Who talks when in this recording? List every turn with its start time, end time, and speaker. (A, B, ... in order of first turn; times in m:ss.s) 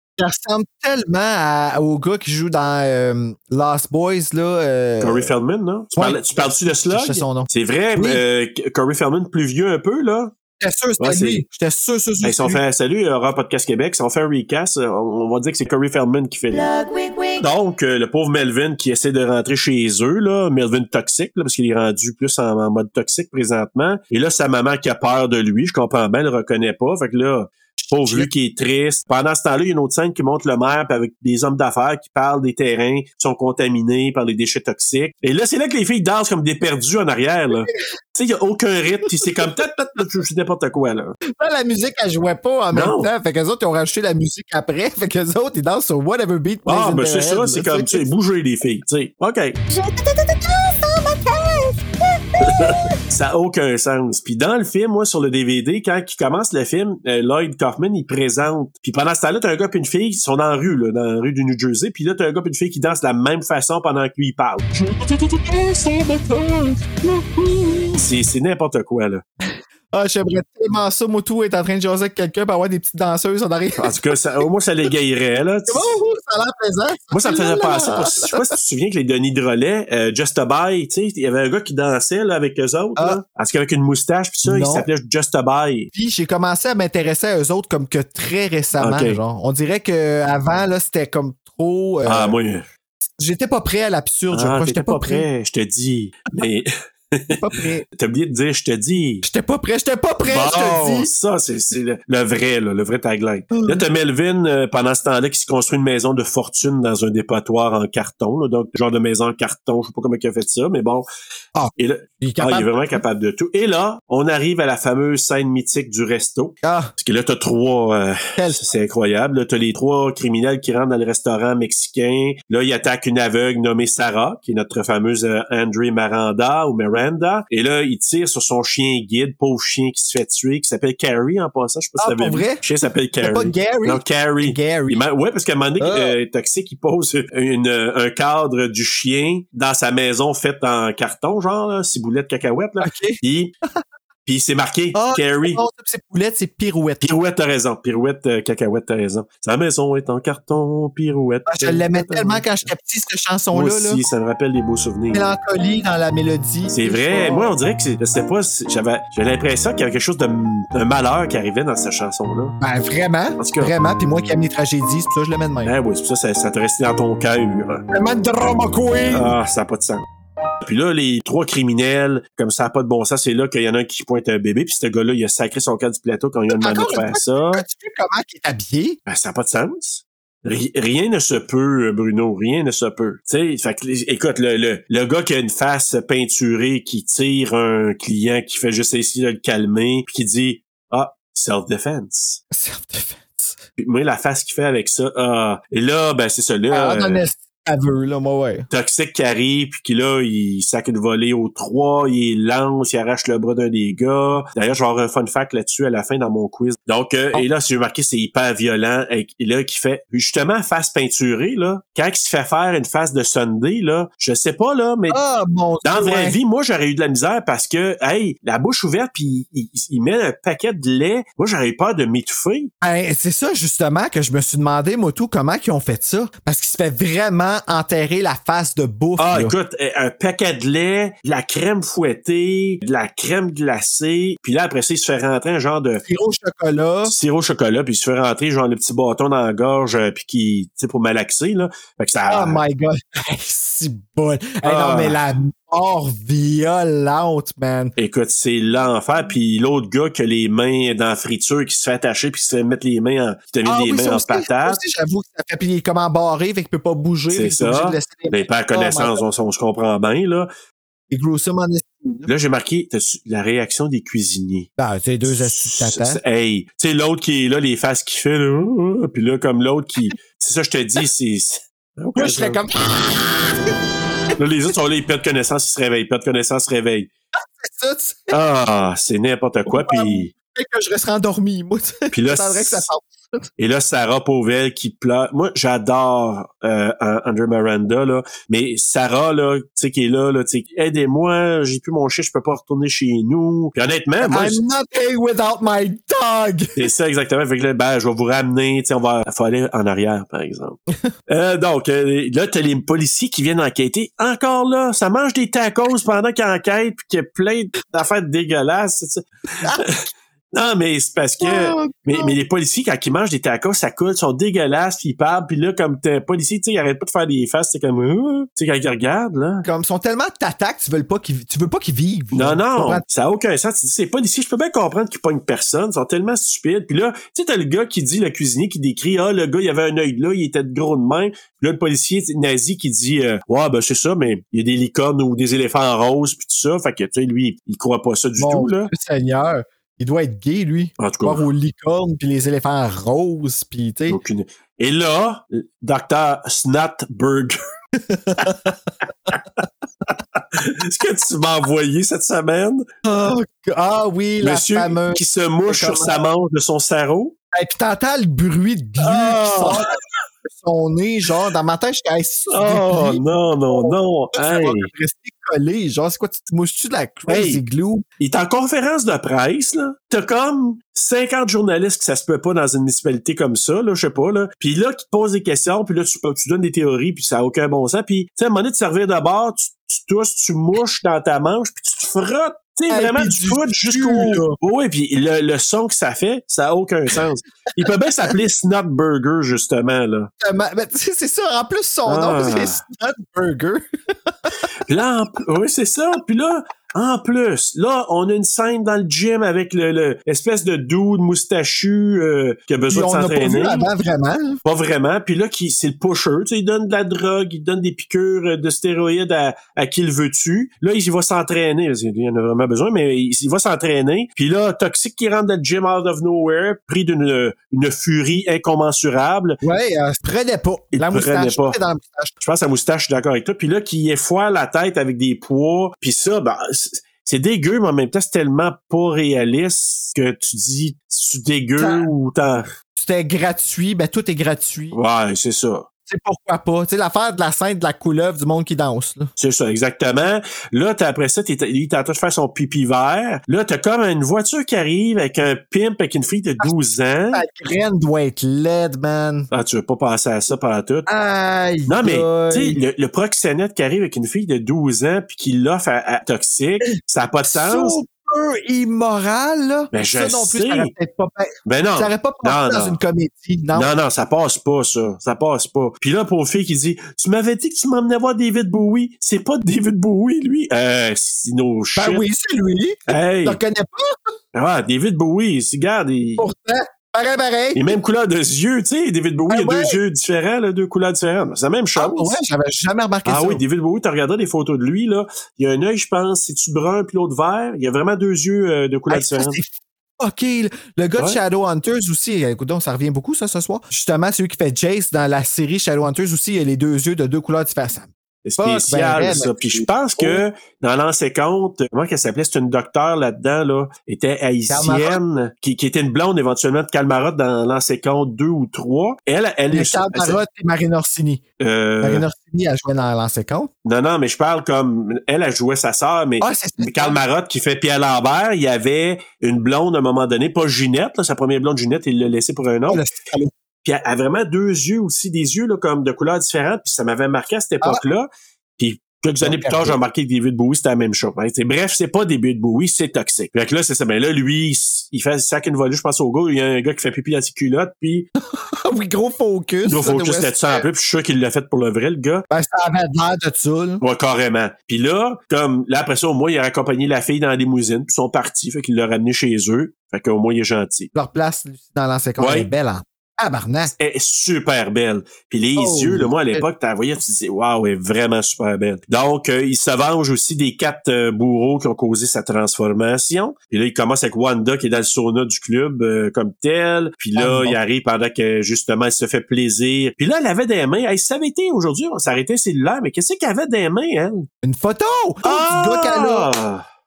0:00.2-0:05.3 A
0:05.0-0:10.3 B
0:06.0-0:08.2 A
0:10.6-0:12.6 A
0:11.0-0:11.4 B
0:12.2-0:16.7 B
0:16.5-0:17.3 A
0:17.4-0:41.2 B
0:27.8-0:28.3 A
0:41.4-0:48.1 A
0:42.7-0:43.1 B
0:46.6-0:49.6 B
0:49.7-0:52.9 C
0:52.4-1:04.7 B
1:04.7-1:08.0 A
1:08.0-1:09.2 B
1:09.9-1:14.0 A
1:13.8-1:15.9 B
1:15.7-1:18.4 A
1:17.1-1:25.9 B
1:24.4-1:24.9 A
1:25.9-1:32.4 A
1:28.8-1:29.2 B
1:32.0-1:32.6 B
1:33.2-1:35.2 A
1:34.3-1:39.2 B
1:37.3-1:37.8 A
1:39.2-1:41.1 A
1:40.2-1:51.1 B
1:43.5-1:43.8 A
1:51.5-1:53.0 A
1:51.8-2:23.5 B
1:56.6-1:56.9 A
1:58.4-1:58.6 A
2:12.0-2:12.6 A
2:13.2-2:15.0 A
2:15.8-2:16.2 A
2:22.8-2:23.2 A
2:24.2-2:25.6 B
2:24.9-2:27.1 A
2:27.0-2:32.5 B
2:31.5-2:34.0 A
2:33.5-2:35.2 B
2:35.1-2:37.5 A
2:36.7-2:42.6 B
2:42.6-2:45.7 A
2:43.4-2:43.7 B
2:45.6-2:47.8 B
2:47.9-2:49.3 A
2:49.1-2:50.0 B
2:50.6-2:57.6 B
2:56.5-2:59.0 A
2:59.0-3:12.4 B
3:12.5-3:13.6 A
3:13.8-3:17.2 B
3:16.7-3:18.7 A
3:18.7-3:35.2 B
3:35.1-3:36.4 A
3:35.8-3:42.7 B
3:42.8-3:49.5 A
3:49.2-3:56.0 B
3:56.0-3:57.1 A
3:57.0-4:02.6 B
4:02.2-4:07.9 A
4:04.6-4:05.2 B
4:08.0-4:14.8 B
4:13.6-4:19.2 A
4:17.3-4:20.5 B
4:21.1-4:22.3 A
4:22.3-4:24.7 B
4:24.8-4:26.2 A
4:25.2-4:32.6 B
4:32.2-4:33.6 A
4:34.4-4:37.1 B
4:37.6-4:38.3 A
4:38.3-4:40.3 B
4:39.7-4:43.5 A
4:42.1-4:42.8 B
4:43.6-4:54.6 B
4:54.2-4:56.8 A
4:56.8-5:19.6 B
5:11.4-5:12.3 A
5:19.6-5:23.0 A
5:22.3-5:38.9 B
5:38.4-5:44.2 A
5:41.0-5:41.4 B
5:44.1-5:47.6 B
5:48.0-5:48.8 A
5:50.5-5:52.8 B
5:53.0-5:56.2 A
5:54.4-5:57.4 B
5:57.5-5:59.9 A
5:59.0-5:59.9 B
6:00.5-6:08.0 A
6:02.5-6:04.9 B
6:07.3-6:07.6 B
6:08.2-6:30.3 B
6:22.9-6:24.6 A
6:30.4-6:34.3 A
6:32.0-6:32.8 B
6:34.8-6:43.9 B
6:42.9-6:44.6 A
6:44.6-6:59.6 B
6:59.6-7:02.3 A
7:00.9-7:01.8 B
7:02.4-7:12.7 B
7:11.8-7:12.1 A
7:13.0-7:15.0 A
7:14.9-7:15.8 B
7:16.1-7:19.3 A
7:19.4-7:27.4 B
7:27.3-7:29.5 A
7:29.5-7:31.1 B
7:31.1-7:32.8 A
7:31.9-7:38.0 B
7:37.4-7:43.9 A
7:39.9-7:40.9 B
7:41.6-7:43.0 B
7:43.7-7:52.2 B
7:52.0-7:54.1 A
7:53.1-7:53.6 B
7:54.5-7:56.4 B
7:56.4-7:57.9 A
7:57.7-8:02.4 B
7:59.5-8:00.0 A
8:02.0-8:03.6 A
8:03.2-8:09.6 B
8:09.1-8:09.7 A
8:10.2-8:20.4 A
8:18.4-8:30.4 B
8:24.7-8:25.2 A
8:29.7-8:31.4 A
8:31.6-8:32.2 B
8:32.0-8:33.7 A
8:33.8-8:43.0 B
8:36.4-8:37.2 A
8:42.9-8:43.5 A
8:43.8-8:58.3 B
8:49.4-8:50.0 A
8:58.5-9:00.8 A
8:59.8-9:02.4 B
9:02.5-9:04.0 A
9:04.0-9:11.1 B
9:11.1-9:13.9 A
9:12.4-9:12.7 B
9:14.0-9:34.5 B
9:15.8-9:16.6 A
9:27.4-9:27.8 A
9:34.6-9:36.5 A
9:35.4-9:36.8 B